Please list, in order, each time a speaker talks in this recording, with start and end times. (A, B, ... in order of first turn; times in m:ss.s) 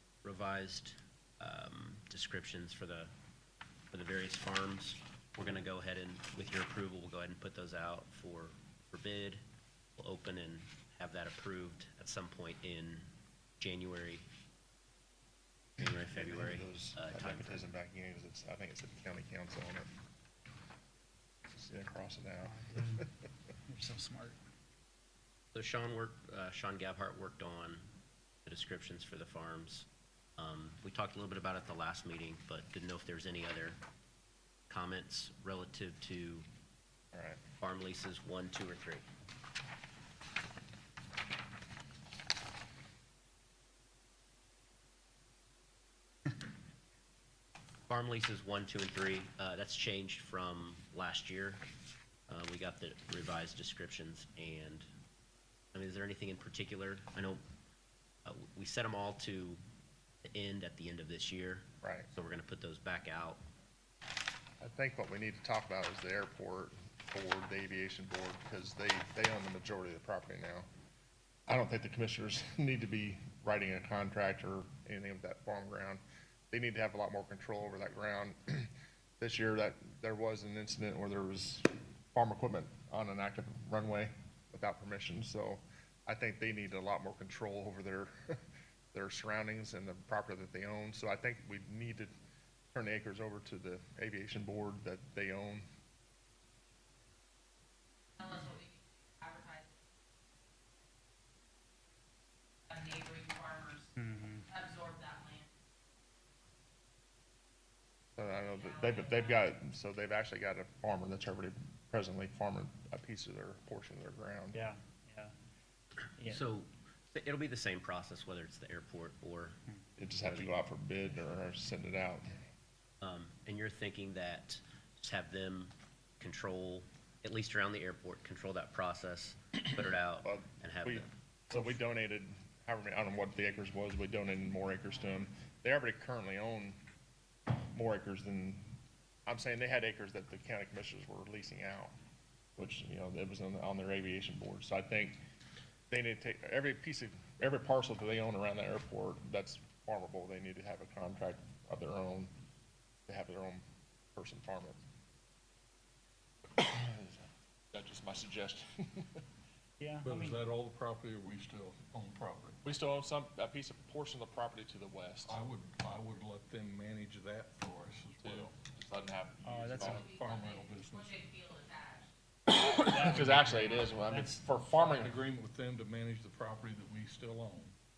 0:00.2-0:03.1 A
0:03.9-0:09.4 A
0:10.0-0:13.1 A
0:13.6-0:14.2 A
0:15.8-0:17.7 A
0:16.1-0:19.9 B
0:21.5-0:23.0 B
0:22.4-0:23.1 C
0:23.7-0:24.4 C
0:25.5-0:27.8 A
0:28.4-0:29.9 A
0:30.4-0:33.8 A
0:34.7-0:36.5 A
0:37.1-0:37.4 B
0:37.6-0:39.0 A
0:47.9-0:51.6 A
0:52.3-0:54.9 A
0:55.7-0:57.4 A
0:58.2-0:59.6 A
1:00.2-1:03.4 A
1:01.8-1:02.1 B
1:04.6-1:10.7 B
1:11.5-1:28.4 B
1:28.9-1:32.1 B
1:32.7-1:35.7 B
1:38.2-1:39.8 D
1:42.7-1:43.9 D
1:44.0-1:44.4 C
1:44.5-1:45.5 D
1:48.2-1:54.6 B
1:48.6-1:49.4 D
1:54.5-1:55.3 C
1:56.2-1:59.6 A
2:00.0-2:02.4 B
2:00.2-2:00.5 A
2:03.0-2:11.1 A
2:10.2-2:16.8 B
2:17.5-2:18.7 B
2:19.2-2:21.9 B
2:22.6-2:25.2 B
2:25.9-2:32.3 B
2:33.1-2:33.6 B
2:34.2-2:34.8 B
2:36.6-2:37.2 B
2:37.7-2:39.2 B
2:39.8-2:40.4 C
2:40.0-2:42.6 E
2:42.6-2:45.4 B
2:45.2-2:48.5 E
2:48.2-2:50.1 B
2:49.4-2:50.0 C
2:49.5-2:51.2 E
2:49.8-2:52.1 D
2:52.5-2:55.2 B
2:52.9-2:54.4 C
2:54.7-2:57.8 E